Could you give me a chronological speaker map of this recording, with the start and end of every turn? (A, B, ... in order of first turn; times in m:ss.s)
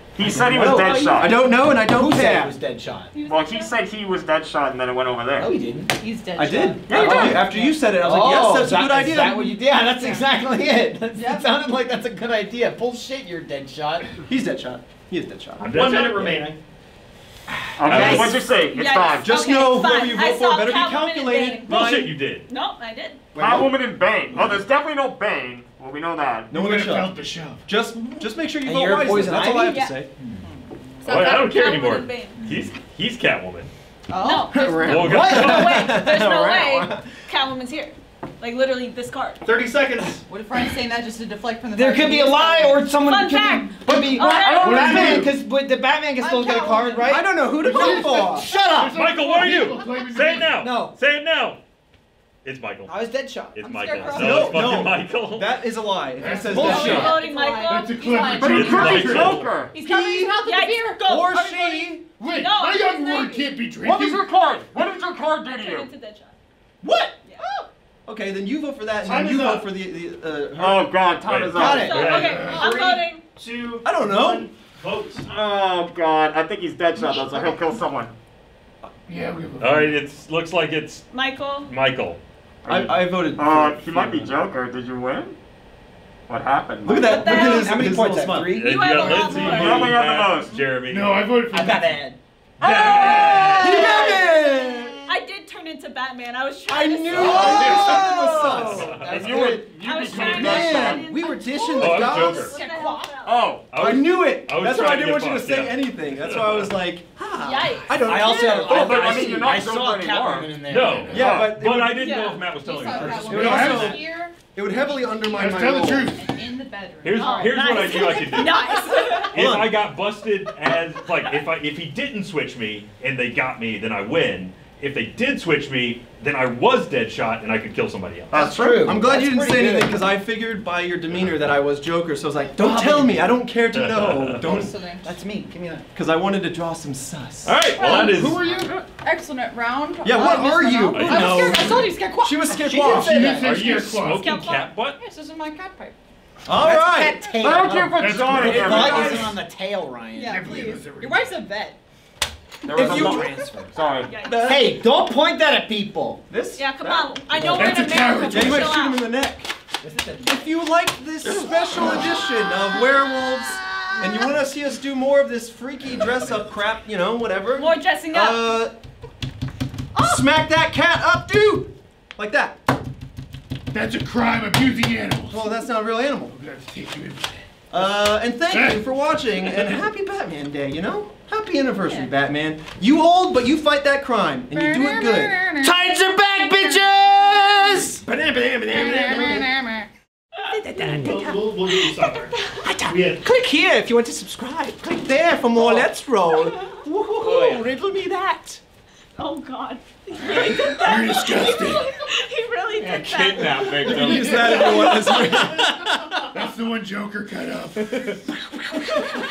0:00.1-0:01.4 A
0:00.2-0:02.6 B
0:00.4-0:03.1 C
0:00.6-0:01.4 D
0:03.1-0:03.8 D
0:03.2-0:05.5 A
0:05.4-0:06.0 C
0:05.9-0:07.5 E
0:06.4-0:09.5 B
0:06.9-0:07.5 A
0:06.9-0:14.1 C
0:09.3-0:10.2 E
0:11.1-0:11.5 E
0:14.3-0:15.7 B
0:15.6-0:16.5 F
0:15.7-0:16.6 G
0:17.5-0:18.4 C
0:17.8-0:19.7 A
0:17.9-0:18.4 F
0:18.7-0:23.2 D
0:19.2-0:22.1 B
0:21.7-0:22.4 F
0:23.4-0:23.7 B
0:23.4-0:26.5 A
0:26.5-0:30.1 B
0:26.5-0:27.6 H
0:28.4-0:30.4 C
0:29.6-0:29.9 D
0:31.0-0:32.4 D
0:31.0-0:33.7 F
0:34.1-0:35.1 E
0:34.2-0:39.4 D
0:34.5-0:37.1 B
0:34.6-0:35.1 A
0:34.8-0:35.9 F
0:35.0-0:35.8 C
0:39.4-0:40.2 G
0:40.3-0:42.9 E
0:41.8-0:49.7 C
0:43.0-0:45.2 D
0:44.2-0:45.0 A
0:44.5-0:45.4 H
0:46.2-0:47.4 E
0:47.1-0:48.5 B
0:47.6-0:50.6 H
0:48.8-0:51.6 F
0:49.5-0:49.9 D
0:50.5-0:50.9 C
0:52.4-0:52.9 F
0:52.9-0:53.6 C
0:53.6-0:55.6 F
0:53.6-0:55.0 E
0:54.1-0:57.2 B
0:56.2-0:59.5 H
0:56.2-0:59.1 E
0:56.4-0:58.5 D
0:58.3-0:59.8 A
0:58.4-0:59.6 F
0:59.7-1:01.0 E
0:59.7-1:00.4 B
1:00.4-1:03.6 D
1:01.0-1:02.0 B
1:02.2-1:04.3 H
1:03.8-1:05.9 A
1:05.4-1:06.3 D
1:06.8-1:07.2 B
1:08.1-1:11.0 B
1:09.0-1:09.8 G
1:10.5-1:12.1 A
1:11.2-1:12.5 F
1:11.5-1:12.0 B
1:11.6-1:11.9 C
1:11.6-1:13.2 D
1:11.9-1:12.8 H
1:12.5-1:15.3 G
1:13.8-1:14.5 B
1:15.3-1:18.1 A
1:17.0-1:17.6 D
1:19.1-1:20.0 H
1:19.6-1:21.0 F
1:21.1-1:21.7 D
1:21.7-1:22.2 F
1:22.6-1:25.4 A
1:22.7-1:24.4 B
1:26.3-1:27.6 A
1:26.8-1:28.6 B
1:27.0-1:27.9 D
1:27.1-1:29.4 C
1:28.5-1:31.4 F
1:28.6-1:30.0 D
1:29.3-1:30.7 A
1:30.8-1:32.1 H
1:31.5-1:32.2 C
1:32.6-1:34.3 A
1:32.6-1:35.0 B
1:32.7-1:33.4 H
1:33.1-1:33.8 D
1:33.2-1:33.6 F
1:33.7-1:34.1 C
1:35.1-1:38.2 D
1:36.7-1:42.5 B
1:37.1-1:37.4 F
1:37.2-1:39.7 C
1:37.2-1:41.1 A
1:37.4-1:38.0 H
1:38.7-1:39.5 F
1:39.8-1:43.5 D
1:41.8-1:42.6 F
1:42.0-1:43.2 E
1:43.2-1:43.7 A
1:43.7-1:46.7 F
1:43.8-1:49.3 B
1:47.4-1:47.9 D
1:47.4-1:47.8 E
1:47.9-1:51.3 C
1:48.5-1:51.6 A
1:50.6-1:54.0 F
1:50.8-1:51.4 H
1:51.1-1:52.2 B
1:52.0-1:53.1 D
1:52.5-1:59.3 E
1:53.1-1:56.2 B
1:53.4-1:54.0 H
1:55.2-1:56.3 H
1:57.0-1:58.7 F
1:57.2-1:59.3 D
1:59.3-2:08.5 F
1:59.3-1:59.8 B
2:08.3-2:08.9 A
2:08.3-2:10.0 C
2:08.8-2:14.7 B
2:11.1-2:11.5 F
2:12.6-2:13.3 C
2:13.7-2:14.5 F
2:14.4-2:15.2 E
2:15.0-2:15.8 C
2:15.9-2:17.8 B
2:17.4-2:18.5 F
2:17.8-2:18.2 E
2:17.9-2:18.8 H
2:19.0-2:22.7 E
2:20.0-2:23.4 B
2:20.9-2:21.7 F
2:21.2-2:21.5 C
2:22.5-2:23.5 C
2:22.7-2:24.3 H
2:23.4-2:25.0 F
2:24.1-2:24.7 D
2:25.0-2:26.0 E
2:26.5-2:27.9 B
2:26.6-2:30.4 C
2:27.4-2:29.4 A
2:27.9-2:29.3 H
2:28.5-2:29.2 B
2:30.2-2:31.8 E
2:30.2-2:31.4 H
2:32.6-2:34.5 A
2:32.7-2:33.8 C
2:32.7-2:33.4 B
2:34.1-2:34.6 D
2:34.2-2:34.8 B
2:34.4-2:36.2 C
2:36.3-2:39.5 B
2:36.6-2:39.1 D
2:37.5-2:38.8 H
2:39.8-2:40.4 C
2:40.2-2:48.7 B
2:47.5-2:48.6 D
2:50.0-2:52.6 B
2:53.7-2:55.5 H
2:55.3-2:56.4 B
2:56.3-2:57.9 H
2:57.7-3:05.4 B
2:58.5-2:58.9 H
3:01.8-3:02.1 E
3:04.5-3:05.8 E
3:05.6-3:08.0 C
3:08.7-3:09.4 B
3:08.7-3:09.9 E
3:08.7-3:09.5 C
3:10.5-3:11.5 C
3:10.8-3:11.3 B
3:11.0-3:13.2 G
3:12.6-3:13.3 C
3:13.2-3:18.6 B
3:15.6-3:15.8 C
3:17.2-3:17.7 C
3:19.2-3:25.6 D
3:20.2-3:20.6 B
3:20.2-3:21.8 H
3:22.8-3:24.9 F
3:23.8-3:26.2 B
3:23.8-3:25.0 H
3:26.3-3:28.2 H